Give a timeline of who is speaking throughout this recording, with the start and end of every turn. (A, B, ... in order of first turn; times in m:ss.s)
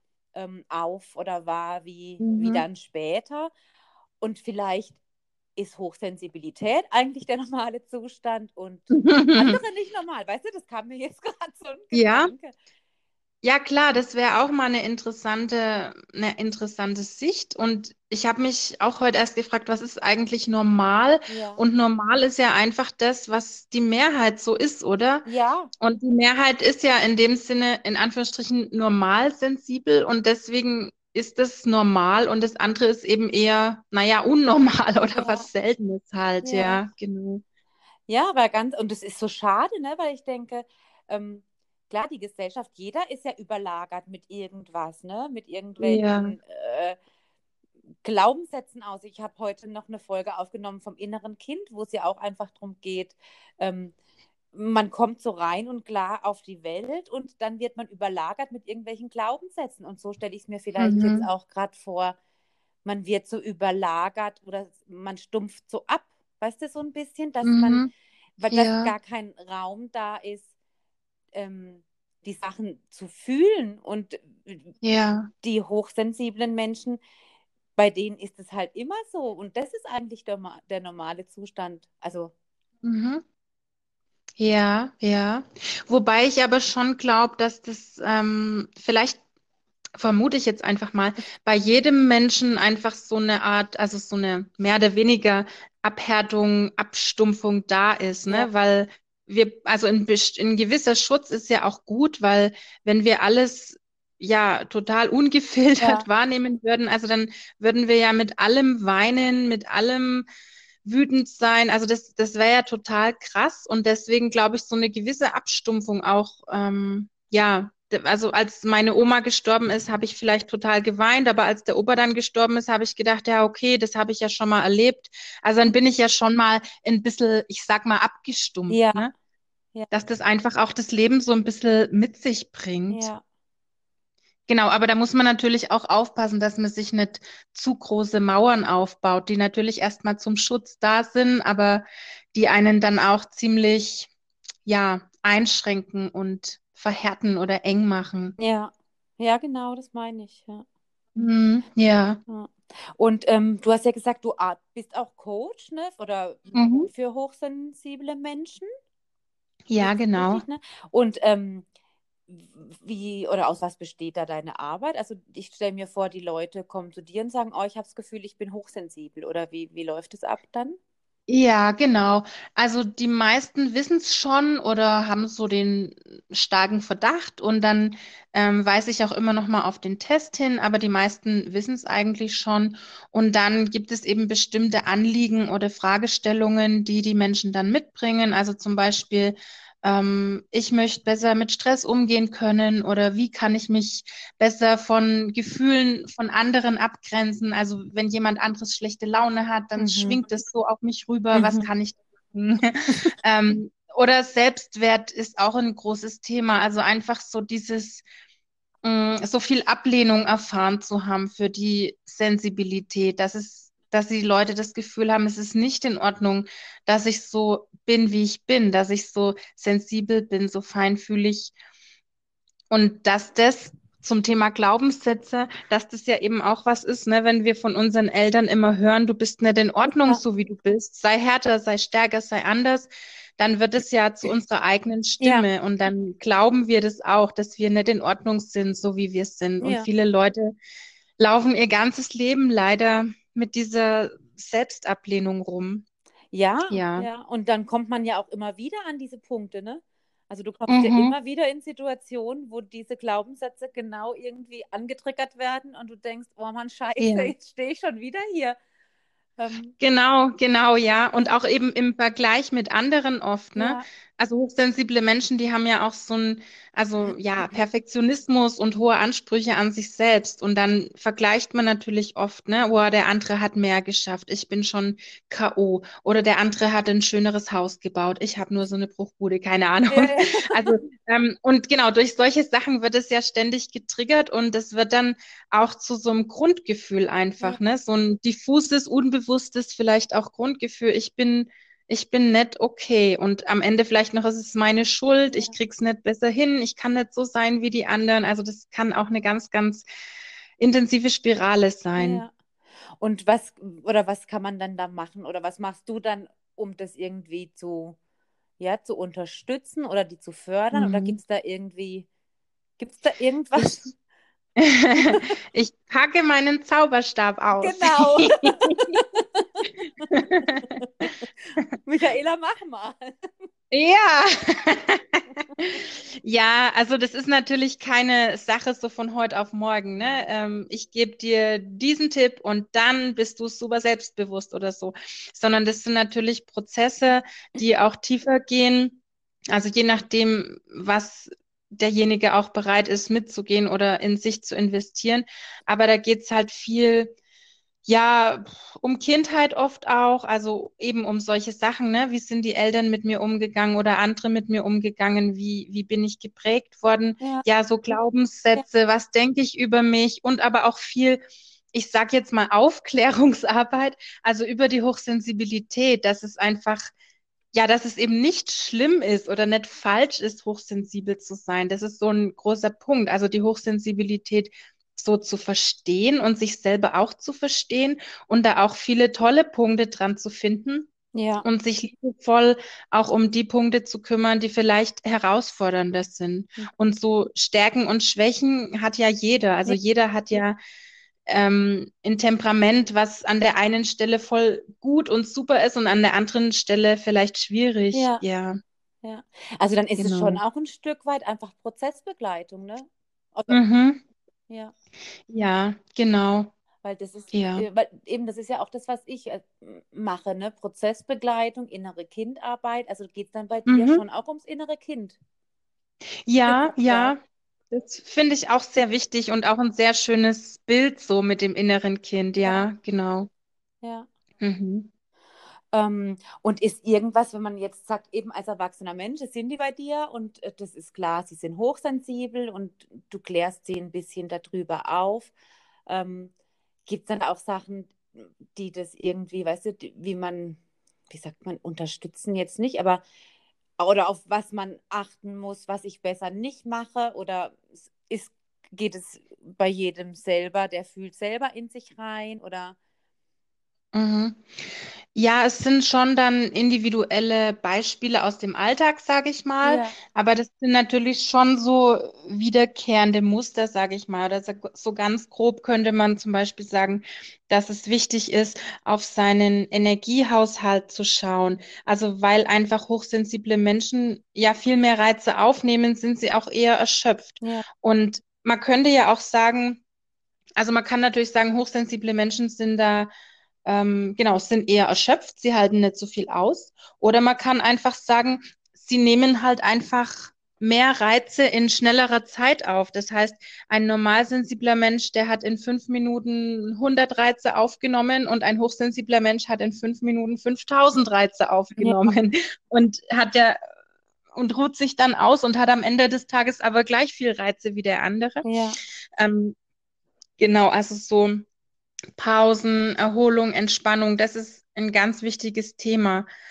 0:00.4-0:03.5 A
0:02.2-0:02.6 B
0:04.2-0:05.0 A
0:05.6-0:12.6 A
0:08.9-0:09.6 B
0:11.9-0:12.3 B
0:13.4-0:25.3 B
0:21.3-0:21.6 A
0:25.2-0:25.7 A
0:25.8-0:37.4 B
0:35.1-0:35.5 A
0:36.4-0:36.9 A
0:38.1-0:47.0 A
0:45.8-0:46.4 B
0:48.0-0:53.9 A
0:54.5-1:02.2 A
1:00.8-1:01.3 B
1:02.8-1:10.5 A
1:07.4-1:07.9 B
1:08.5-1:08.9 B
1:11.3-1:14.8 A
1:14.8-1:15.3 B
1:15.4-1:17.0 A
1:17.8-1:22.3 A
1:22.8-1:23.2 B
1:24.4-1:29.2 B
1:30.0-1:50.3 B
1:45.8-1:46.1 A
1:50.8-2:09.1 B
2:08.7-2:09.1 A
2:09.9-2:13.1 B
2:12.9-2:13.2 A
2:14.5-2:24.1 B
2:24.7-2:28.4 B
2:28.4-2:30.6 A
2:31.2-2:32.2 B
2:32.3-2:38.7 A
2:36.5-2:36.9 B
2:39.7-2:40.4 B
2:39.8-2:41.7 A
2:42.3-2:50.8 A
2:51.3-3:28.0 B
3:19.8-3:20.2 A
3:21.3-3:21.7 A
3:28.8-3:41.5 B
3:42.7-4:00.5 B
3:49.9-3:50.2 A
3:55.2-3:55.5 A
3:59.6-3:59.9 A
4:01.2-4:05.8 B
4:06.3-4:18.6 A
4:06.7-4:07.1 B
4:10.7-4:11.1 B
4:17.0-4:17.3 B
4:19.4-4:19.7 A
4:19.8-4:59.9 B
4:23.6-4:23.8 A
4:39.9-4:40.7 A
4:55.3-4:55.6 A
5:00.6-5:02.2 B
5:02.0-5:02.3 A
5:03.0-5:08.0 A
5:08.6-5:12.1 A
5:10.7-5:11.2 B
5:12.8-5:13.9 A
5:13.6-5:13.9 B
5:14.6-5:18.4 B
5:15.0-5:15.3 A
5:17.5-5:23.1 A
5:20.1-5:20.6 B
5:23.7-5:47.2 B
5:30.0-5:30.2 A
5:47.9-6:06.9 B
5:57.2-5:57.4 A
6:07.5-6:20.9 B
6:21.1-6:21.5 A
6:21.4-6:30.6 B
6:31.3-6:38.6 B
6:37.9-6:38.2 A
6:39.0-6:43.6 A
6:40.0-6:40.4 B
6:43.5-6:44.0 B
6:45.3-6:46.5 B
6:46.8-6:55.2 A
6:47.3-6:47.7 B
6:53.7-6:54.0 B
6:56.3-6:57.2 B
6:56.4-6:57.2 A
6:57.7-7:03.3 B
7:02.4-7:02.7 A
7:03.8-7:04.1 A
7:04.4-7:04.9 B
7:05.7-7:15.3 A
7:15.9-7:16.3 A
7:16.9-7:23.0 A
7:23.8-7:32.8 A
7:33.9-7:59.8 B
7:39.6-7:40.0 A
8:00.6-8:03.1 B
8:03.6-8:23.6 B
8:21.8-8:22.1 A
8:24.3-8:28.4 B
8:28.4-8:28.8 A
8:29.2-8:29.6 B
8:30.4-8:31.4 B
8:32.2-8:36.3 B